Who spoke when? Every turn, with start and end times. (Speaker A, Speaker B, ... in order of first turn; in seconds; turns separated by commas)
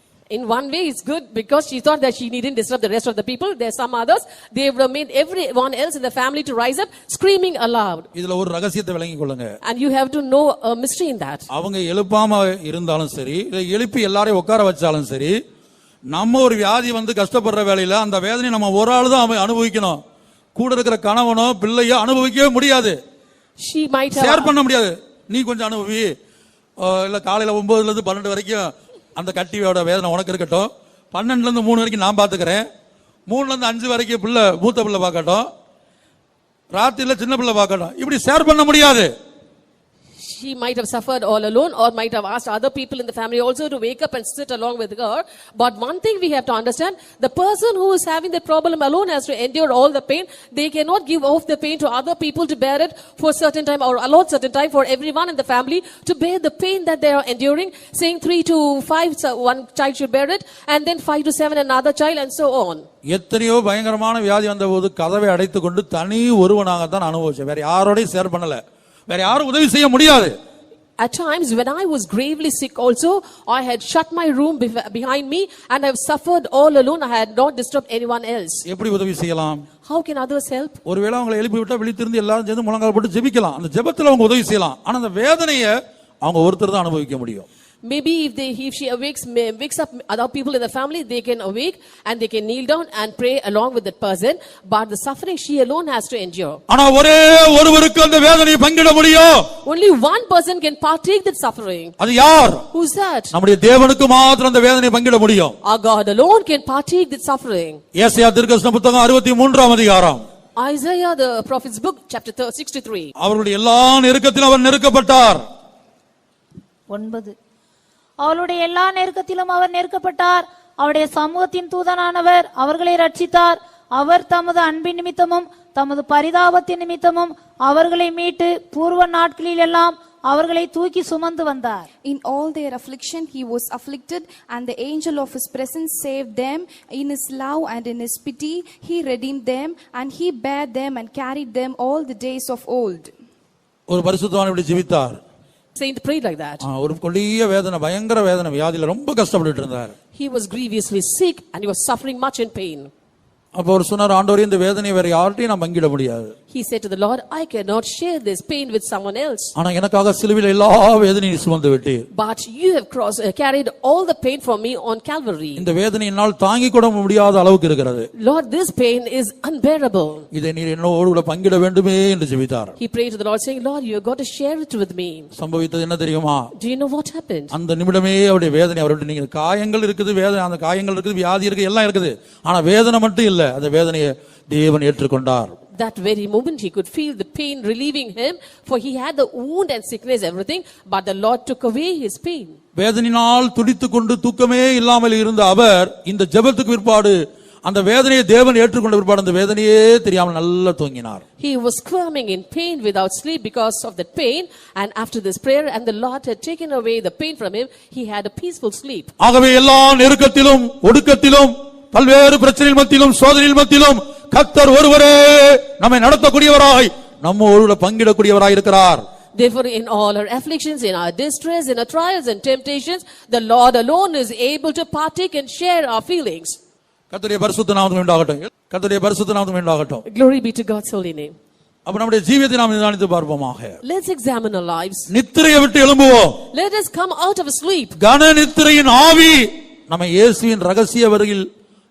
Speaker A: 0.3-8.1, Speaker B: 8.1-9.5, Speaker A: 9.6-11.4, Speaker B: 11.5-15.4, Speaker B: 16.1-20.0, Speaker B: 20.6-23.0, Speaker A: 23.6-24.5, Speaker B: 24.1-26.1, Speaker B: 26.8-32.6, Speaker B: 33.3-35.5, Speaker B: 36.7-39.1, Speaker A: 40.2-62.9, Speaker B: 63.1-70.3, Speaker A: 71.0-78.6, Speaker B: 78.7-79.6, Speaker A: 79.8-80.8, Speaker B: 80.8-87.5, Speaker A: 87.8-96.6, Speaker B: 96.7-99.5, Speaker A: 99.6-101.9, Speaker B: 102.0-102.6, Speaker A: 102.7-103.3, Speaker B: 103.3-105.6, Speaker A: 105.6-107.8, Speaker B: 107.9-110.2, Speaker A: 110.5-113.1, Speaker B: 113.2-115.4, Speaker C: 116.9-117.3, Speaker C: 118.2-131.8, Speaker D: 132.0-143.1, Speaker B: 143.9-145.2, Speaker A: 145.8-146.6, Speaker B: 146.6-149.9, Speaker A: 150.1-152.9, Speaker B: 153.5-156.3, Speaker A: 156.5-159.5, Speaker B: 159.6-162.1, Speaker A: 162.1-165.6, Speaker B: 165.6-168.1, Speaker A: 168.2-170.2, Speaker B: 170.3-172.7, Speaker A: 172.8-175.3, Speaker B: 175.3-176.5, Speaker A: 176.5-177.5, Speaker B: 177.5-185.5, Speaker A: 185.7-192.6, Speaker B: 192.8-201.2, Speaker A: 201.4-209.1, Speaker B: 209.2-219.0, Speaker A: 219.3-226.6, Speaker B: 227.1-230.0, Speaker A: 230.1-231.3, Speaker B: 231.8-233.8, Speaker A: 233.8-235.1, Speaker B: 235.1-236.4, Speaker A: 236.5-238.0, Speaker B: 238.0-241.5